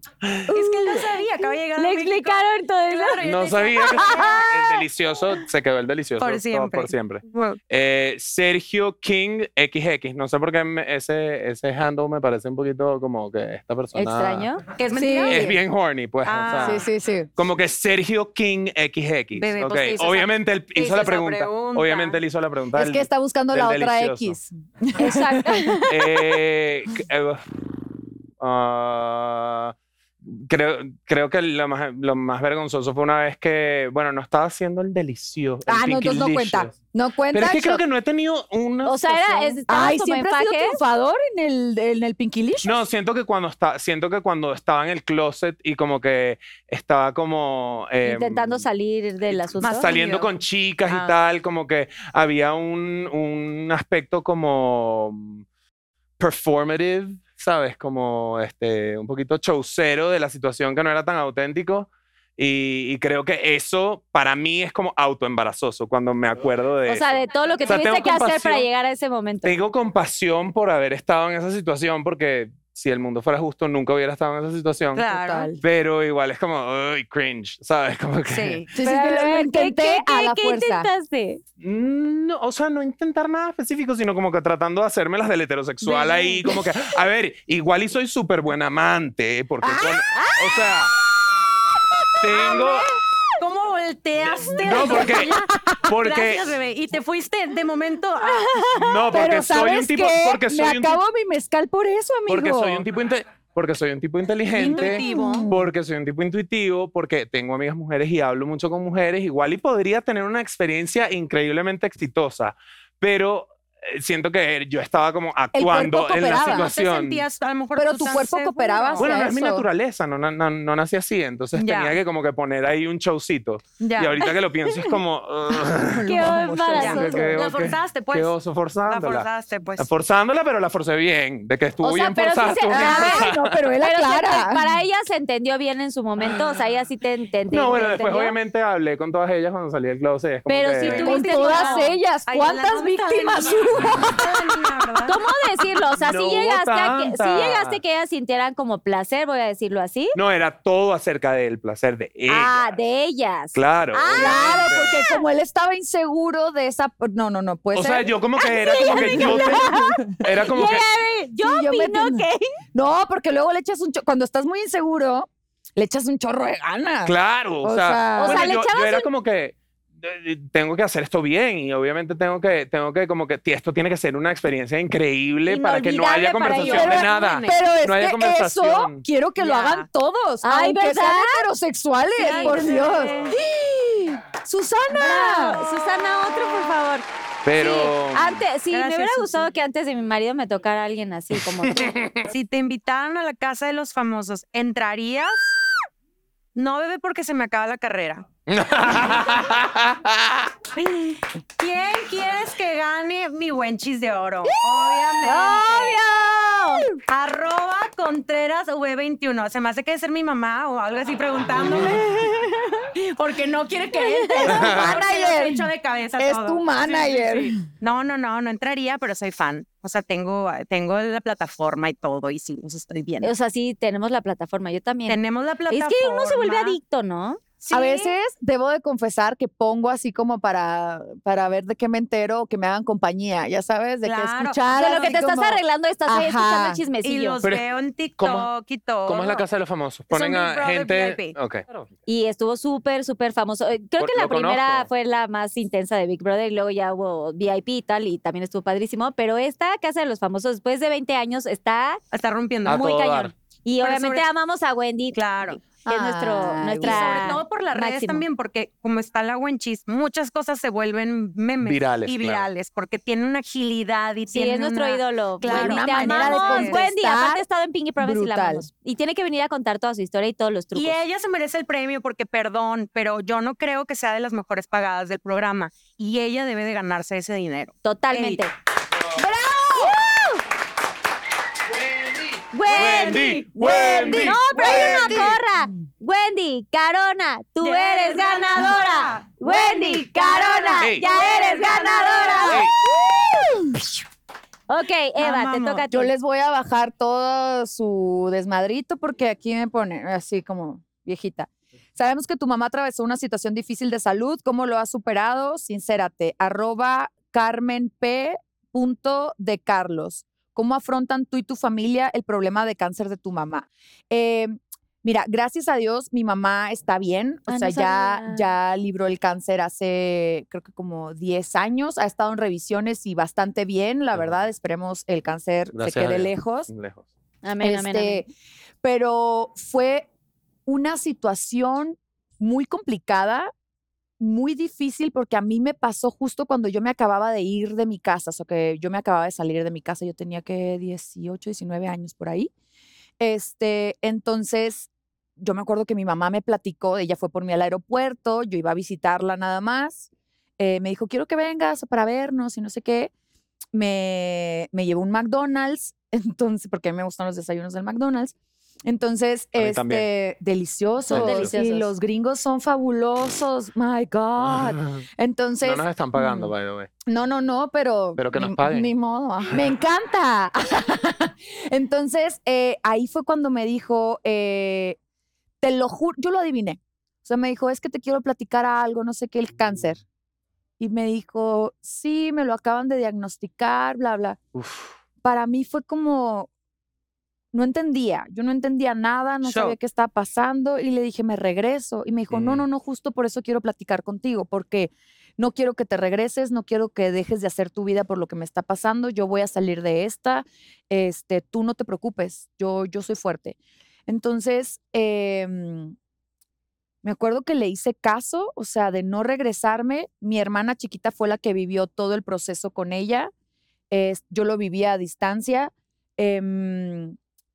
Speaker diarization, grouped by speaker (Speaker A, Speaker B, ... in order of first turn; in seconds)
Speaker A: 0.5-4.7, 6.2-7.6, 14.8-15.5, 16.2-16.9, 19.4-22.2, 49.6-50.3, 50.9-51.2, 75.0-75.5, 78.3-78.7, 85.8-86.5, 92.3-92.8, 93.4-98.7, 104.5-105.5, 116.2-119.2, 121.5-122.0, 123.8-124.2, 126.8-128.3, 128.9-129.9, 140.8-145.2, 176.6-177.6, 179.4-179.9, 182.3-183.4, 188.7-189.5, 192.3-195.6, 196.6-198.3, 200.8-206.0, 207.1-223.3, 225.1-226.8, 227.6-228.2, 234.0-235.1, 237.0-239.4, 240.1-241.4, 252.1-252.9, 253.8-254.2, 255.1-255.6, 256.8-266.8, 270.7-278.4, 282.6-285.3, 287.6-292.7, 295.2-295.9
Speaker B: 1.8-3.2, 3.8-4.5, 13.9-14.6, 25.0-26.1, 38.8-40.8, 48.0-49.9, 66.9-69.6, 78.8-81.4, 90.1-90.4, 98.2-99.0, 126.1-127.4, 131.8-138.4, 140.5-141.9, 145.1-150.2, 152.3-155.2, 158.4-162.4, 168.2-169.1, 175.5-177.3, 180.4-181.5, 182.2-183.1, 184.9-187.1, 187.6-191.9, 205.2-206.9, 214.0-214.6, 223.2-227.4, 234.7-237.4, 242.1-252.0, 252.7-258.2, 264.3-271.0, 277.8-278.5, 279.8-280.4, 282.5-283.4, 284.0-292.7, 294.7-296.1, 317.5-318.5, 327.4-328.2, 361.1-361.9
Speaker C: 3.2-14.5, 15.3-16.8, 17.4-24.4, 25.9-27.4, 28.4-36.8, 37.3-39.6, 42.6-48.7, 49.2-55.4, 56.2-68.7, 69.4-75.0, 75.6-78.7, 81.6-90.9, 92.2-92.9, 94.3-95.3, 95.9-96.5, 98.8-101.0, 102.3-117.2, 119.0-126.2, 126.7-133.6, 137.5-141.2, 146.0-147.8, 150.1-152.8, 153.5-155.0, 157.7-160.8, 167.0-179.0, 187.4-188.4, 191.4-192.3, 198.5-200.5, 214.5-214.9, 238.2-238.5, 239.1-241.7, 244.0-244.9, 252.7-253.3, 261.6-262.5, 282.7-285.4, 290.8-291.1, 292.5-292.7, 324.1-324.4, 325.7-327.1, 359.6-360.1, 361.1-361.5, 364.4-365.0, 365.6-366.9, 368.2-368.9, 384.6-385.0, 389.5-389.7, 392.3-392.6
Speaker D: 14.9-15.6, 16.6-17.3, 22.8-25.9, 35.7-37.8, 39.7-42.8, 75.1-75.6, 78.7-80.9, 89.6-90.0, 94.6-95.8, 99.1-102.8, 104.5-105.7, 115.5-116.7, 117.8-119.7, 125.7-127.3, 132.7-134.7, 140.9-144.5, 154.1-158.1, 158.7-160.7, 161.4-168.5, 176.6-185.6, 214.3-217.6, 227.7-236.8, 255.8-257.4, 265.5-267.4, 268.0-268.7, 279.2-280.0, 283.6-285.4, 293.0-293.8, 295.9-326.7, 327.6-328.3, 328.8-330.1, 330.7-333.5, 334.2-342.5, 343.2-353.1, 353.7-366.5, 367.1-375.0, 375.6-380.0, 380.8-384.4, 385.2-386.5, 387.5-405.9, 407.0-413.3, 413.9-417.2